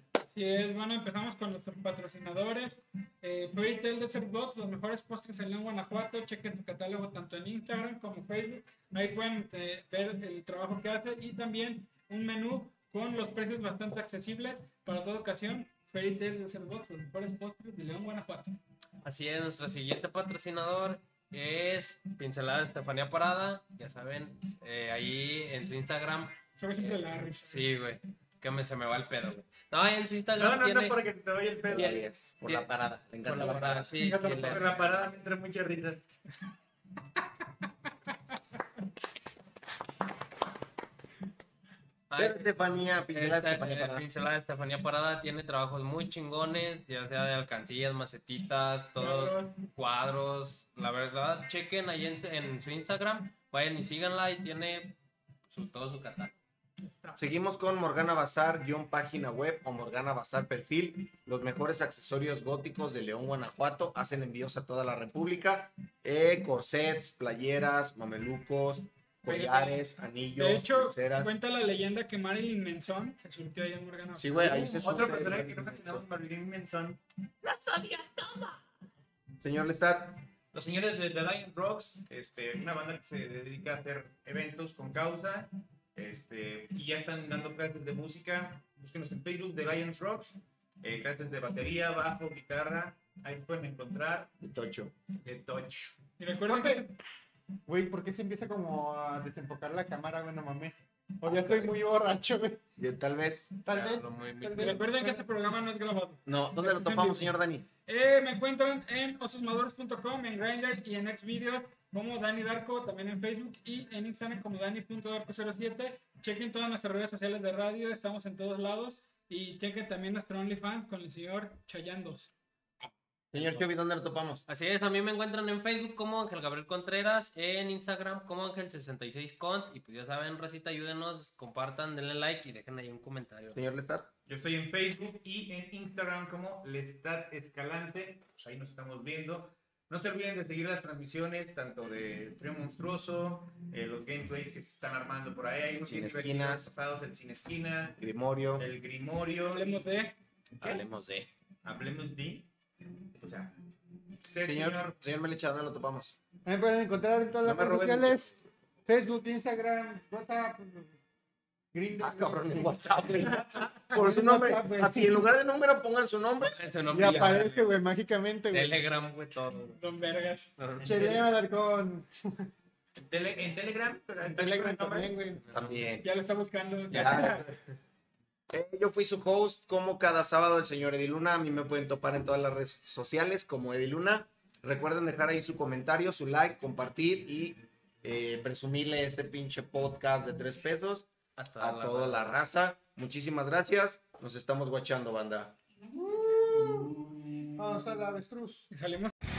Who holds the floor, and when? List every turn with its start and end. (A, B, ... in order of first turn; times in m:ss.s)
0:00.3-0:18.6 A
0:19.0-0:31.0 B
0:26.6-0:27.6 A
0:30.4-0:32.1 C
0:31.7-0:34.0 D
0:31.7-0:32.7 B
0:33.2-0:35.0 B
0:34.0-0:36.0 C
0:42.1-0:54.9 B
0:42.2-0:44.0 D
0:49.0-0:49.6 A
0:55.5-0:56.4 B
0:56.8-0:57.2 A
0:57.2-1:11.3 D
1:09.2-1:09.8 C
1:10.4-1:14.9 A
1:14.1-1:16.0 D
1:14.7-1:18.5 C
1:19.4-1:20.2 D
1:20.5-1:34.3 C
1:34.4-1:34.9 D
1:35.2-1:36.0 C
1:36.2-1:36.9 A
1:36.4-1:36.8 E
1:37.7-1:42.6 E
1:41.2-1:41.7 D
1:42.8-1:43.9 D
1:43.6-1:45.2 E
1:43.7-1:44.8 B
1:44.6-1:47.3 A
1:46.2-1:47.7 D
1:47.9-2:02.3 A
2:03.3-2:04.4 D
2:04.5-2:13.6 B
2:13.5-2:14.1 D
2:14.3-2:28.0 C
2:25.8-2:26.7 D
2:28.0-2:28.7 D
2:28.6-2:29.8 C
2:29.4-2:30.1 A
2:30.6-2:31.3 D
2:31.6-2:32.5 C
2:33.2-2:33.6 C
2:34.3-2:35.0 C
2:34.4-2:36.1 D
2:36.4-2:38.3 E
2:37.4-2:38.4 D
2:38.8-2:41.0 E
2:41.7-2:45.2 E
2:42.0-2:46.6 D
2:46.4-2:47.8 B
2:46.9-2:48.8 E
2:48.5-2:49.8 B
2:49.8-2:50.5 A
2:50.6-2:51.2 B
2:50.8-2:51.3 C
2:50.8-2:52.5 E
2:53.0-2:55.2 C
2:54.2-2:55.4 E
2:55.4-2:55.8 B
2:55.5-2:56.1 D
2:56.0-2:57.4 A
2:56.9-2:57.5 D
2:58.5-3:15.6 D
3:11.4-3:12.4 B
3:15.9-3:17.0 E
3:17.6-3:18.7 E
3:18.7-3:19.1 A